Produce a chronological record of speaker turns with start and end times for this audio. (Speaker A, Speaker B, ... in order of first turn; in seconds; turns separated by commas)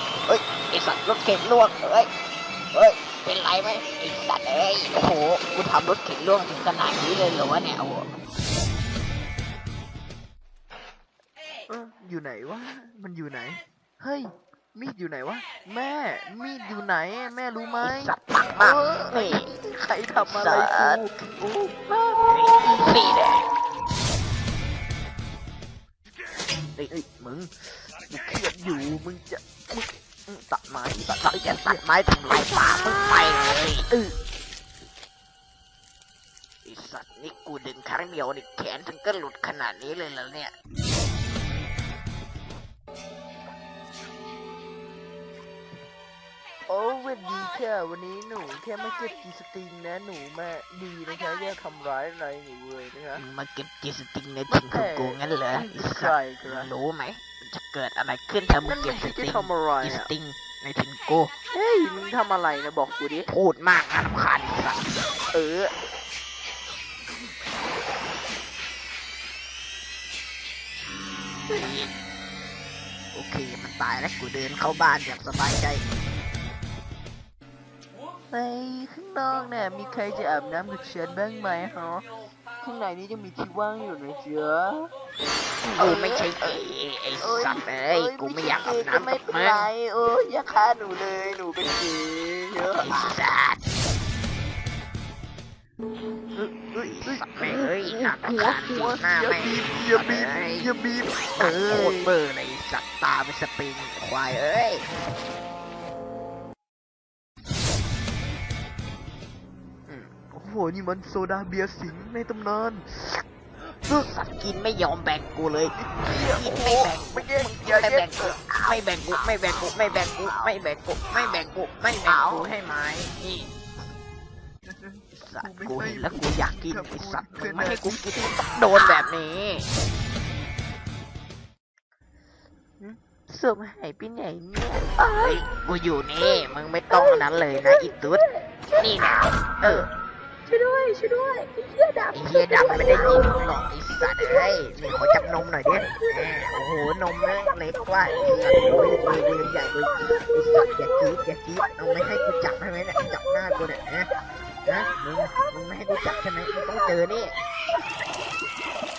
Speaker A: 0.3-2.1, Speaker A: 2.7-8.1, Speaker B: 11.7-23.1, Speaker A: 17.8-19.5, Speaker A: 20.2-21.1, Speaker A: 22.2-23.5, Speaker B: 26.9-34.1, Speaker A: 31.1-33.9, Speaker A: 36.6-40.5, Speaker B: 46.7-53.2, Speaker A: 53.1-61.3, Speaker B: 54.5-56.7, Speaker B: 58.6-60.1, Speaker B: 61.5-63.3, Speaker A: 63.3-65.0, Speaker B: 65.3-65.7, Speaker A: 71.5-71.9, Speaker A: 73.1-75.8, Speaker B: 78.3-84.9, Speaker B: 85.7-86.6, Speaker A: 85.8-89.7, Speaker B: 87.2-93.1, Speaker A: 92.8-93.7, Speaker B: 96.3-102.1, Speaker A: 96.8-100.7, Speaker A: 101.4-104.9, Speaker B: 110.2-113.2, Speaker A: 113.8-123.5, Speaker B: 115.7-119.7, Speaker B: 120.2-120.6, Speaker B: 122.0-122.5, Speaker B: 124.7-128.4, Speaker A: 125.2-129.7, Speaker A: 132.8-138.2, Speaker B: 135.0-135.4, Speaker B: 136.2-139.9, Speaker A: 138.8-139.9, Speaker B: 140.5-143.4, Speaker A: 142.1-154.1, Speaker B: 144.0-145.2, Speaker B: 145.8-146.6, Speaker B: 147.3-152.4, Speaker B: 153.0-153.8, Speaker A: 154.7-157.3, Speaker B: 155.3-157.0